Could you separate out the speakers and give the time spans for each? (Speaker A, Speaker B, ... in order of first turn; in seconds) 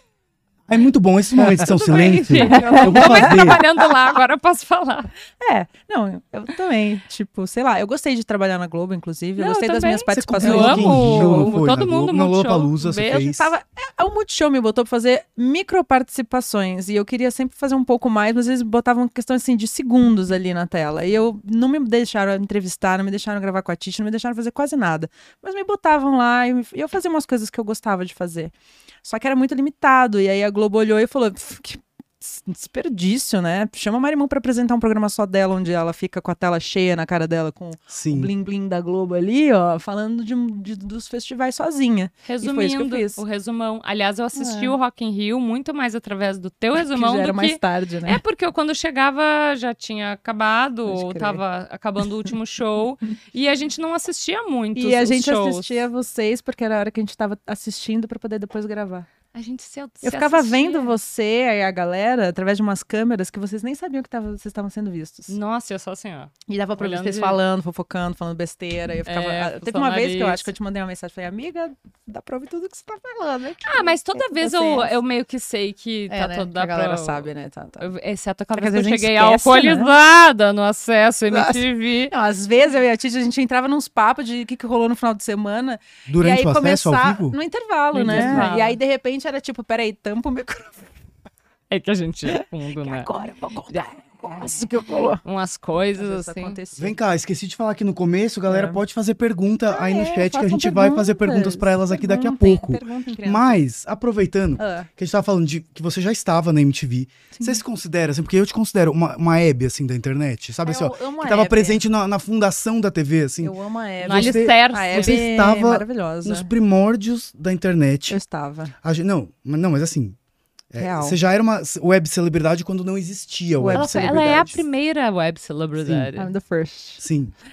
Speaker A: 0.7-3.6, 10.1-13.5, 37.9-38.3, 86.1-87.4, 88.0-88.4, 96.8-113.5, 114.0-118.2, 118.8-120.2, 120.7-124.6, 125.8-126.1, 127.0-127.3
Speaker B: 1.4-4.0, 5.4-11.6, 13.2-43.2, 44.3-44.7, 46.7-48.2, 50.9-51.4, 54.7-59.1, 60.0-65.4, 66.5-74.9, 76.1-77.9, 78.5-79.9, 81.3-90.9, 92.3-95.2, 96.0-97.0, 98.5-98.8, 99.7-103.6, 104.6-104.9, 107.3-107.6, 110.6-111.8, 113.4-116.5, 118.1-118.7, 120.8-121.2, 123.6-124.2, 126.2-127.0
Speaker C: 1.6-5.1, 9.4-13.3, 42.2-55.8, 59.3-60.9, 65.3-67.4, 69.0-70.5, 73.6-77.3, 77.8-82.1, 87.9-88.8, 91.7-93.1, 95.2-96.6, 114.0-115.2, 123.7-126.3